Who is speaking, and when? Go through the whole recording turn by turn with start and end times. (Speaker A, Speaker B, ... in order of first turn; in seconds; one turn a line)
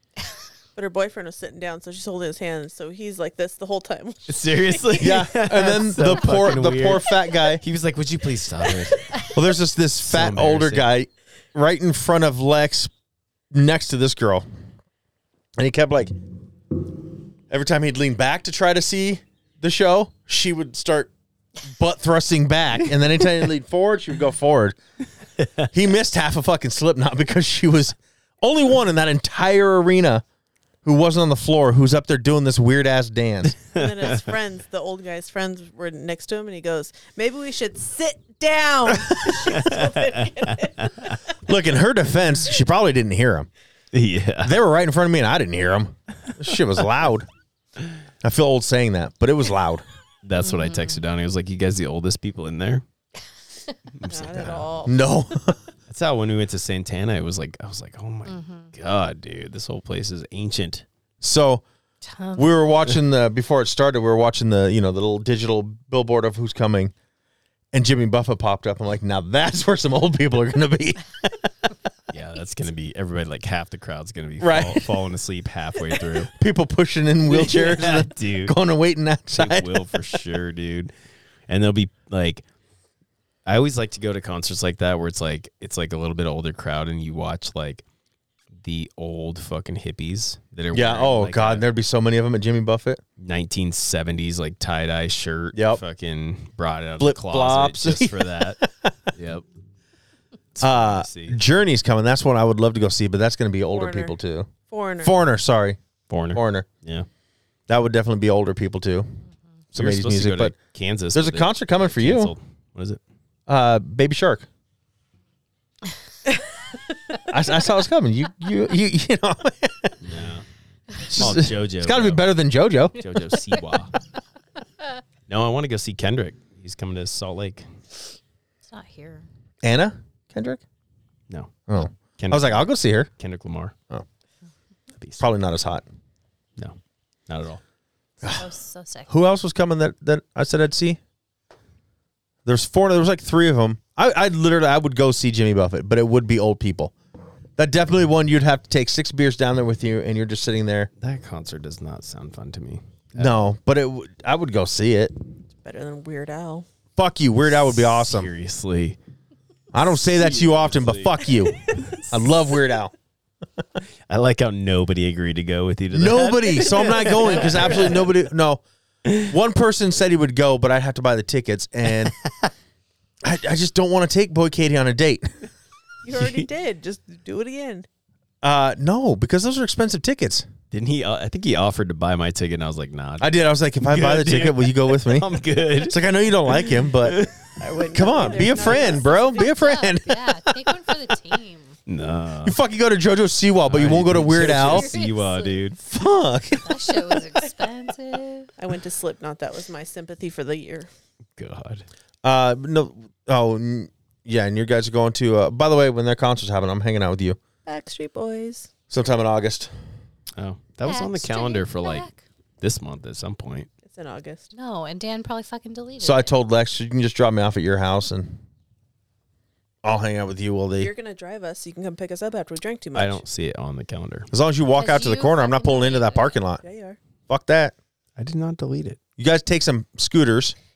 Speaker A: 0.8-4.6
Speaker B: 4.3-9.3
Speaker C: 5.0-7.6
Speaker C: 9.3-12.9
Speaker B: 10.0-10.9
Speaker C: 13.5-14.5
Speaker C: 15.6-16.1
Speaker C: 17.5-21.1
Speaker C: 21.6-24.8
Speaker C: 25.7-30.2
Speaker C: 30.8-33.6
Speaker B: 33.5-34.3
Speaker A: 33.8-41.2
Speaker C: 38.9-39.5
Speaker B: 39.5-41.1
Speaker C: 41.5-43.5
Speaker B: 43.9-44.6
Speaker C: 44.4-47.3
Speaker C: 48.2-49.8
Speaker B: 50.2-52.8
Speaker D: 50.4-51.0
Speaker B: 54.0-54.7
Speaker A: 54.1-55.1
Speaker C: 54.9-55.6
Speaker B: 55.9-60.9
Speaker D: 58.3-58.7
Speaker C: 61.2-61.6
Speaker D: 62.0-62.6
Speaker C: 62.4-66.9
Speaker C: 67.7-71.5
Speaker B: 72.1-76.3
Speaker C: 74.4-75.0
Speaker C: 76.2-80.0
Speaker B: 77.3-78.5
Speaker B: 79.3-80.9
Speaker B: 81.5-82.4
Speaker B: 83.5-87.8
Speaker B: 88.6-91.7
Speaker C: 90.7-93.0
Speaker B: 93.2-98.6
Speaker C: 95.5-95.8
Speaker C: 97.0-99.1
Speaker B: 99.2-99.4
Speaker B: 100.5-101.4
Speaker C: 100.6-104.5
Speaker A: 103.7-104.2
Speaker A: 104.7-105.2
Speaker C: 105.0-105.8
Speaker B: 106.1-107.1
Speaker C: 106.3-106.7
Speaker C: 107.7-109.1
Speaker C: 109.7-110.6
Speaker B: 109.8-113.0
Speaker C: 111.1-112.3
Speaker C: 113.5-114.5
Speaker C: 117.2-120.0
Speaker B: 120.0-120.4
Speaker C: 121.1-123.0
Speaker B: 121.1-122.2
Speaker B: 123.0-123.9
Speaker B: 125.3-127.7
Speaker D: 128.7-129.3
Speaker C: 129.6-130.6
Speaker B: 131.3-131.6
Speaker C: 131.7-133.1
Speaker B: 132.2-133.7
Speaker B: 135.0-135.2
Speaker C: 135.2-135.8
Speaker B: 137.3-137.6
Speaker D: 138.2-139.1
Speaker C: 139.1-141.0
Speaker C: 142.4-146.9
Speaker C: 147.6-150.9
Speaker B: 151.0-153.3
Speaker C: 153.2-155.1
Speaker A: 155.6-156.7
Speaker C: 157.0-158.3
Speaker B: 157.6-159.0
Speaker C: 159.7-162.9
Speaker B: 160.0-162.2
Speaker B: 164.1-168.1
Speaker C: 165.9-168.6
Speaker A: 166.7-168.0
Speaker C: 169.2-172.1
Speaker C: 173.2-175.3
Speaker A: 176.0-177.9
Speaker B: 176.1-176.5
Speaker C: 178.4-180.5
Speaker B: 180.7-189.0
Speaker C: 183.2-187.3
Speaker A: 187.6-189.5
Speaker C: 187.9-190.8
Speaker D: 189.1-191.8
Speaker B: 191.9-192.6
Speaker C: 192.4-194.9
Speaker B: 193.7-195.8
Speaker D: 194.6-195.7
Speaker C: 195.8-196.9
Speaker D: 196.6-198.5
Speaker A: 198.6-200.9
Speaker B: 201.4-201.8
Speaker C: 202.2-207.4
Speaker A: 207.7-208.7
Speaker C: 208.9-209.7
Speaker B: 210.4-212.1
Speaker D: 210.8-212.2
Speaker B: 212.6-213.7
Speaker A: 213.8-214.5
Speaker D: 214.5-216.3
Speaker C: 216.0-218.4
Speaker C: 219.8-220.9
Speaker A: 220.8-223.2
Speaker B: 222.9-224.3
Speaker C: 224.3-226.6
Speaker D: 224.7-226.4
Speaker A: 226.6-227.0
Speaker C: 227.3-227.7
Speaker B: 228.2-229.0
Speaker C: 229.2-230.6